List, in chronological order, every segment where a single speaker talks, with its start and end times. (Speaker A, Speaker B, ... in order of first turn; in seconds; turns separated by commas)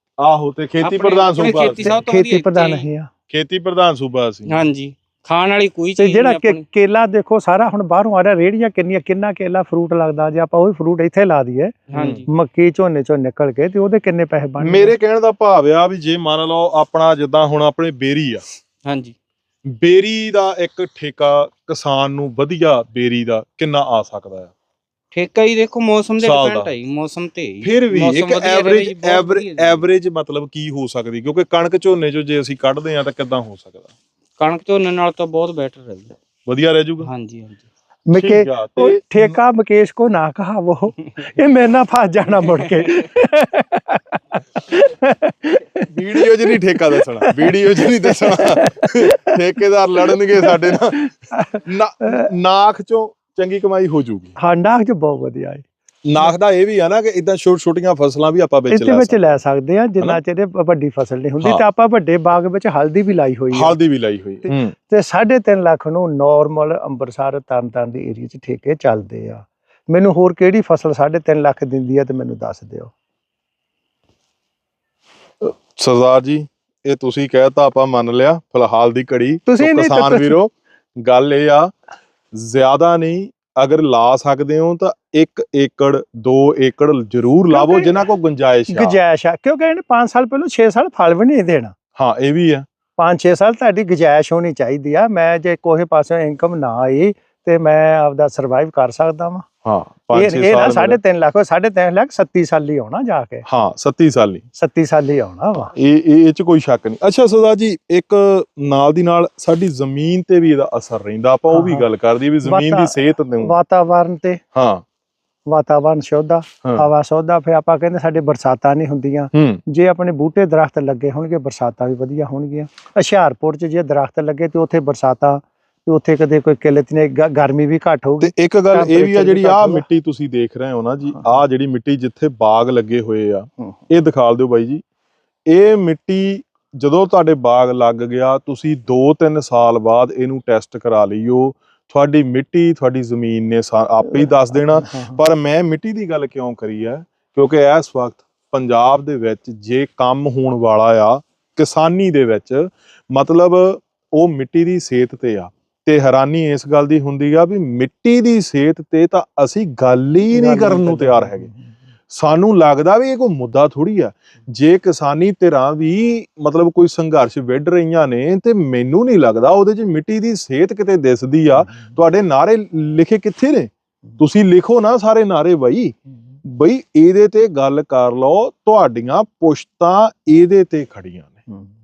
Speaker A: 0.2-2.0, Speaker B: 0.8-2.9, Speaker C: 1.4-3.1, Speaker A: 3.3-4.6, Speaker B: 4.5-6.6, Speaker C: 6.0-14.9, Speaker B: 11.9-12.3, Speaker A: 11.9-12.2, Speaker A: 14.6-18.4, Speaker B: 18.9-19.1, Speaker A: 19.6-24.5, Speaker B: 25.1-29.8, Speaker A: 26.2-26.7, Speaker A: 27.6-33.9, Speaker B: 34.4-36.2, Speaker A: 36.5-37.1, Speaker B: 37.0-37.6, Speaker C: 38.1-49.4, Speaker A: 38.2-39.4, Speaker B: 42.5-42.8, Speaker A: 45.9-51.0, Speaker C: 50.0-52.3, Speaker A: 51.6-54.3, Speaker C: 54.4-55.6, Speaker A: 56.0-59.4, Speaker C: 58.7-63.8, Speaker A: 63.5-64.7, Speaker C: 64.4-72.9, Speaker A: 75.4-81.7, Speaker C: 79.5-80.4, Speaker A: 82.3-89.0, Speaker C: 87.5-88.0, Speaker C: 88.7-91.7, Speaker A: 91.9-92.7, Speaker C: 93.0-99.5, Speaker A: 99.6-101.0, Speaker C: 100.1-103.5, Speaker A: 103.5-104.4, Speaker C: 104.5-105.7, Speaker A: 105.7-113.5, Speaker C: 111.5-111.9, Speaker C: 112.4-114.4, Speaker A: 114.5-114.8, Speaker C: 115.5-129.8, Speaker A: 119.3-119.6, Speaker A: 128.2-134.8, Speaker A: 135.5-161.5, Speaker C: 144.0-145.2, Speaker C: 160.3-161.6, Speaker A: 162.1-181.3